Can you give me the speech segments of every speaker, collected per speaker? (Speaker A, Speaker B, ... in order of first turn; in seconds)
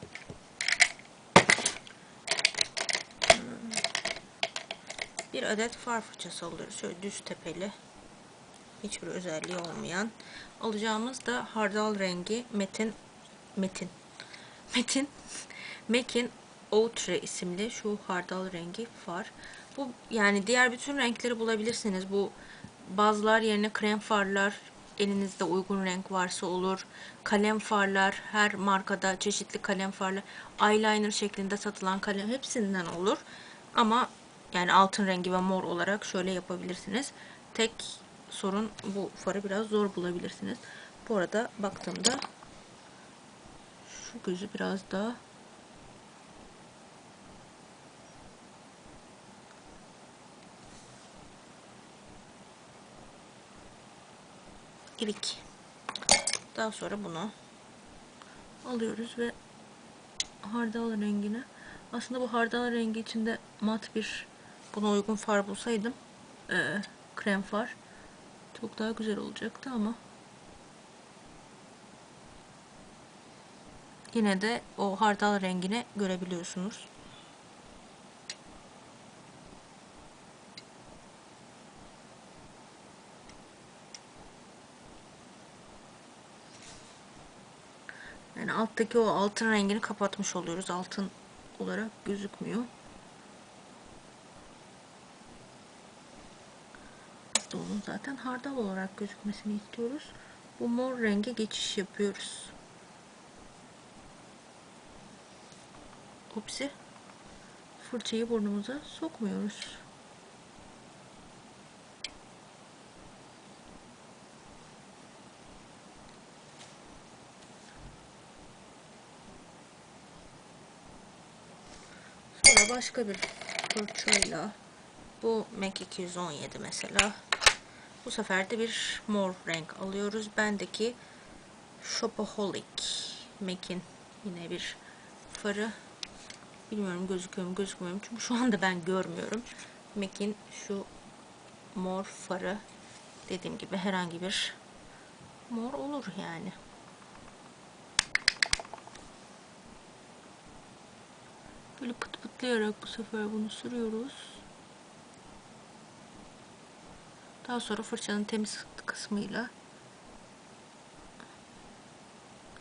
Speaker A: 3.3-3.8, 5.3-7.7, 8.8-13.0, 13.6-13.9, 14.7-42.2, 43.8-45.2, 55.0-55.4, 56.5-57.3, 58.6-59.4, 60.4-66.0, 66.5-67.8, 68.5-70.0, 74.1-76.9, 88.3-92.7, 97.3-102.5, 106.3-106.7, 107.8-109.8, 122.3-124.6, 125.2-127.2, 128.0-131.0, 131.8-135.8, 136.7-140.9, 141.7-142.6, 143.3-144.6, 145.5-146.6, 151.8-154.4, 157.4-159.5